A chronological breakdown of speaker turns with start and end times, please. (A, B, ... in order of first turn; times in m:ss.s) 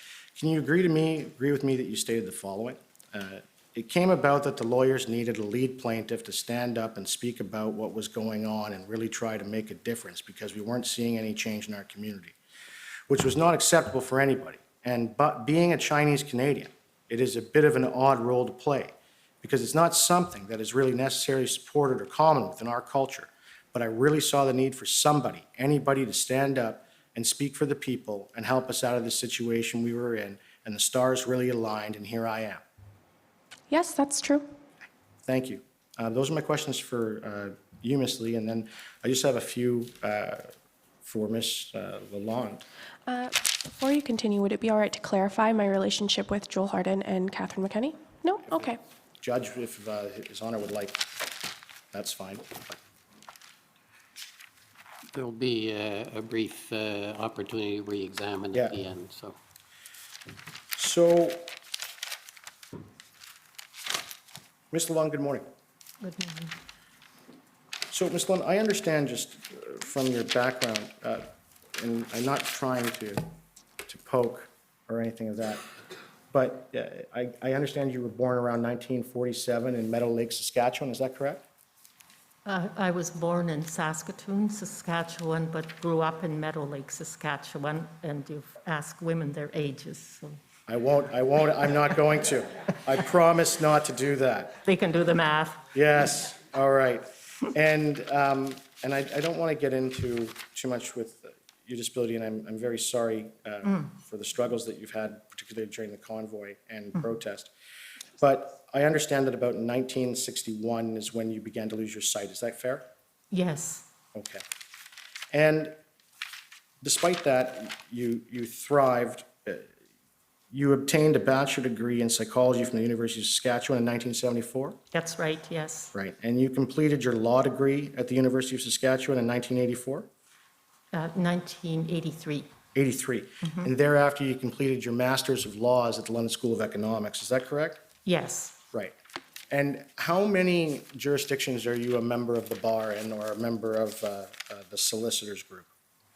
0:00.4-0:12.4 A
0:13.1-0:32.6 A
0:33.7-0:34.4 B
0:35.2-0:40.5 A
0:41.0-0:42.6 A
0:43.0-0:48.8 B
0:49.2-0:51.0 A
0:51.9-0:52.8 A
0:55.1-0:59.4 C
1:00.7-1:01.5 A
1:04.7-1:05.5 A
1:06.0-1:06.5 D
1:07.9-1:11.2 A
1:11.8-1:13.2 A
1:13.9-1:15.6 A
1:16.3-1:21.4 A
1:22.4-1:30.4 D
1:30.7-1:34.6 A
1:34.6-1:35.6 D
1:35.7-1:47.5 A
1:48.2-1:52.8 A
1:53.3-1:53.8 D
1:54.1-1:54.4 A
1:55.3-1:55.8 A
1:56.8-1:59.7 A
2:00.5-2:04.8 A
2:04.9-2:05.9 D
2:05.9-2:10.1 A
2:10.9-2:12.5 D
2:12.7-2:17.8 A
2:13.4-2:13.7 D
2:18.0-2:18.6 D
2:19.5-2:25.7 A